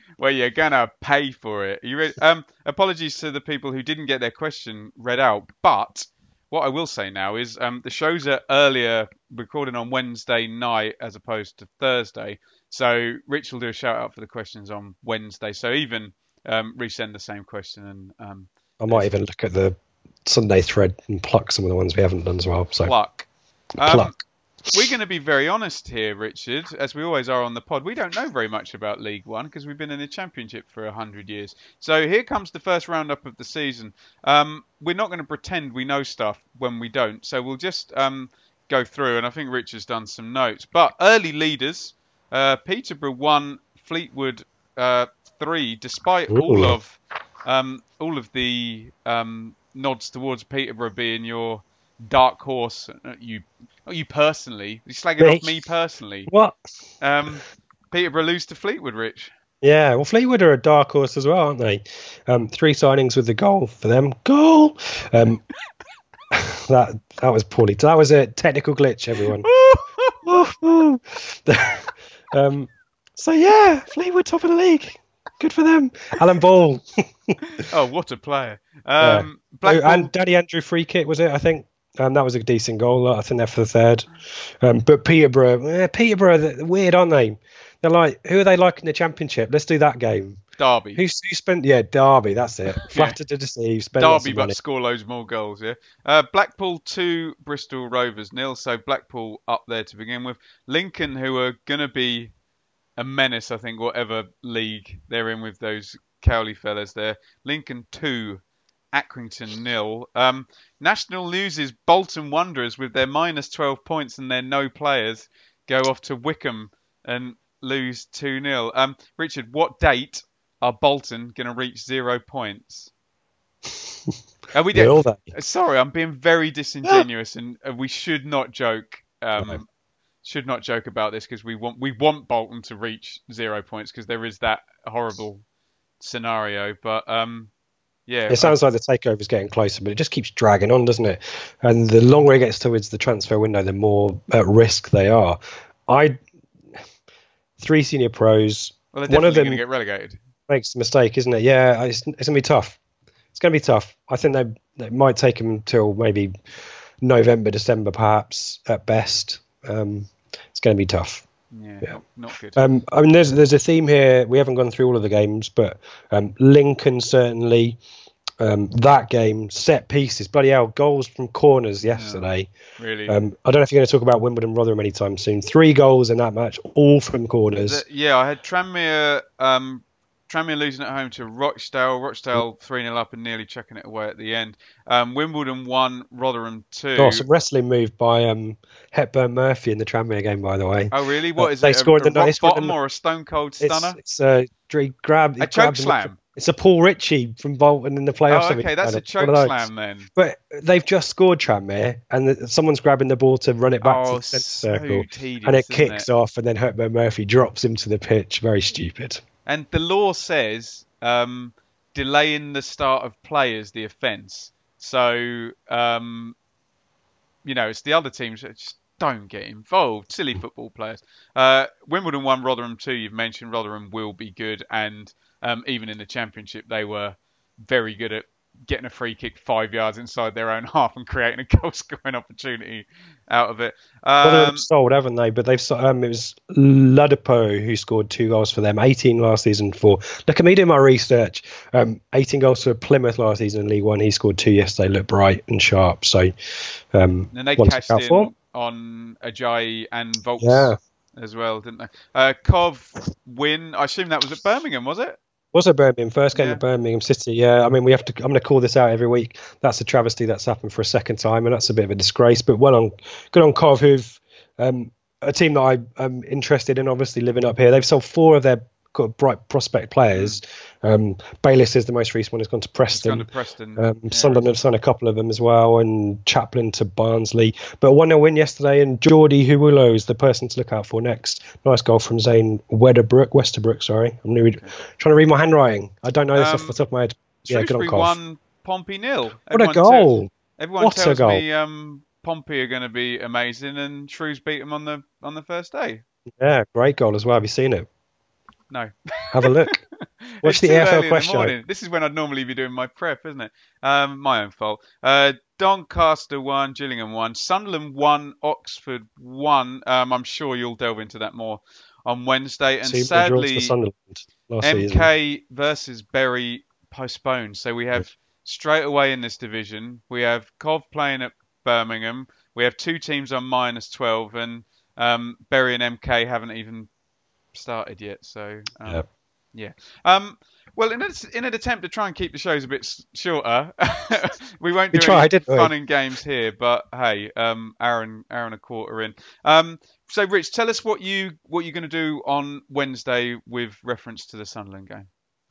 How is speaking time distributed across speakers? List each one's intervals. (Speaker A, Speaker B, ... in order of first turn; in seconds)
Speaker A: 0.2-19.1, 22.8-23.3, 23.8-56.3, 57.0-59.3, 69.3-70.2, 77.5-80.1, 90.6-91.0, 92.8-93.2, 94.0-102.3, 103.0-108.4, 108.9-122.9, 124.5-129.7, 130.2-135.4, 136.0-137.5, 138.1-138.6, 148.9-150.2, 161.5-162.6, 171.9-172.3, 172.8-173.2, 177.7-187.2, 190.9-194.0, 195.4-196.2, 198.3-200.1, 203.8-206.1, 209.4-216.3, 217.4-234.7, 247.3-255.2, 256.3-256.6, 270.1-270.4, 272.9-274.5, 286.3-286.8, 287.4-296.0, 298.7-313.7, 314.6-326.9, 327.5-345.1
Speaker B: 18.8-22.9, 23.8-24.1, 46.3-46.8, 55.2-55.5, 56.3-56.6, 59.6-65.4, 66.3-69.5, 70.2-77.3, 79.0-84.1, 84.6-90.4, 91.0-94.6, 123.8-124.1, 124.7-125.2, 138.3-146.2, 147.6-149.6, 150.5-152.8, 153.3-156.3, 157.0-161.2, 162.6-167.8, 168.4-172.5, 173.1-177.8, 187.0-192.7, 193.6-209.2, 234.2-246.3, 246.9-248.3, 250.4-250.8, 255.5-273.2, 273.8-288.2, 289.5-291.4, 296.4-297.9, 299.3-299.8, 300.4-301.5, 312.8-315.1, 334.9-335.7